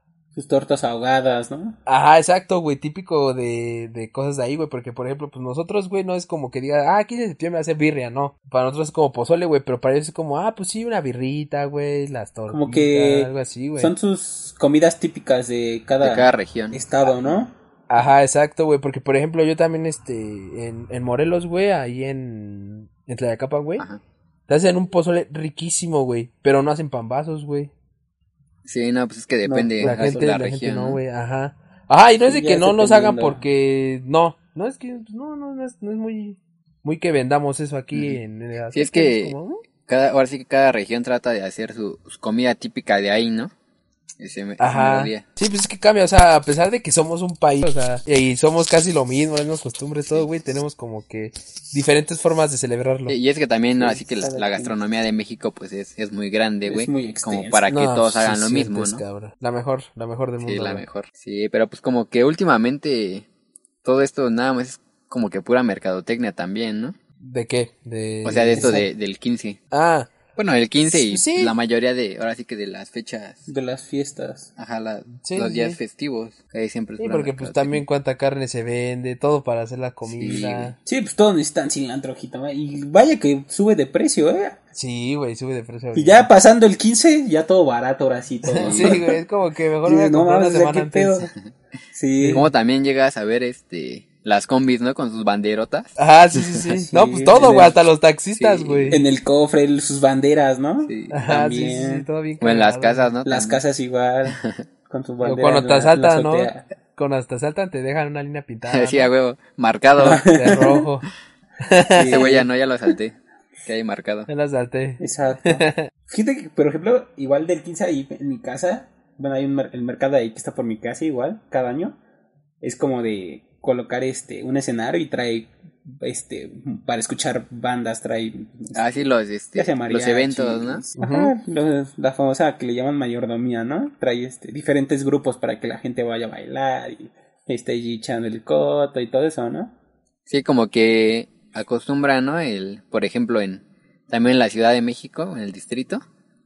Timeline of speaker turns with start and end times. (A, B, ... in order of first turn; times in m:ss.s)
0:00.3-0:01.8 A
0:01.9-0:13.9 B
0:12.5-0:17.5 A
0:16.0-0:16.8 C
0:17.9-0:23.8 B
0:24.5-0:27.7 B
0:28.6-0:31.0 C
0:29.4-0:30.3 A
0:29.8-0:39.6 B
0:32.3-0:33.4 A
0:37.9-0:38.2 C
0:38.7-0:43.5 C
0:44.2-0:45.2 C
0:44.6-0:53.1 B
0:53.1-0:59.0 C
0:53.8-0:54.8 A
0:56.6-0:57.7 A
0:57.7-1:00.8 B
1:00.4-1:03.2 C
1:03.8-1:07.0 C
1:07.2-1:08.8 B
1:08.2-1:09.6 C
1:08.5-1:08.8 A
1:09.7-1:10.1 B
1:10.4-1:13.4 C
1:10.9-1:11.5 B
1:13.5-1:14.5 A
1:14.6-1:17.8 C
1:15.2-1:15.8 B
1:17.0-1:20.8 B
1:20.0-1:20.7 C
1:20.8-1:24.6 A
1:24.7-1:26.3 B
1:25.9-1:29.2 A
1:28.5-1:31.2 B
1:28.6-1:29.0 C
1:29.8-1:31.3 A
1:31.9-1:32.5 A
1:32.2-1:32.4 B
1:32.3-1:36.0 C
1:36.0-1:39.0 B
1:36.8-1:37.7 A
1:38.4-1:39.0 C
1:38.9-1:42.0 A
1:40.8-1:41.2 C
1:41.1-1:43.1 B
1:42.4-1:43.6 C
1:43.2-1:46.6 A
1:44.3-1:44.6 C
1:45.2-1:49.1 B
1:48.7-1:50.3 C
1:50.0-1:50.9 A
1:50.0-1:51.1 B
1:51.6-1:52.3 B
1:51.9-1:52.5 A
1:52.0-1:54.3 C
1:54.3-1:55.9 B
1:55.0-2:02.0 A
2:02.6-2:08.9 A
2:08.7-2:10.8 C
2:09.5-2:19.7 A
2:11.0-2:11.3 B
2:20.3-2:26.0 C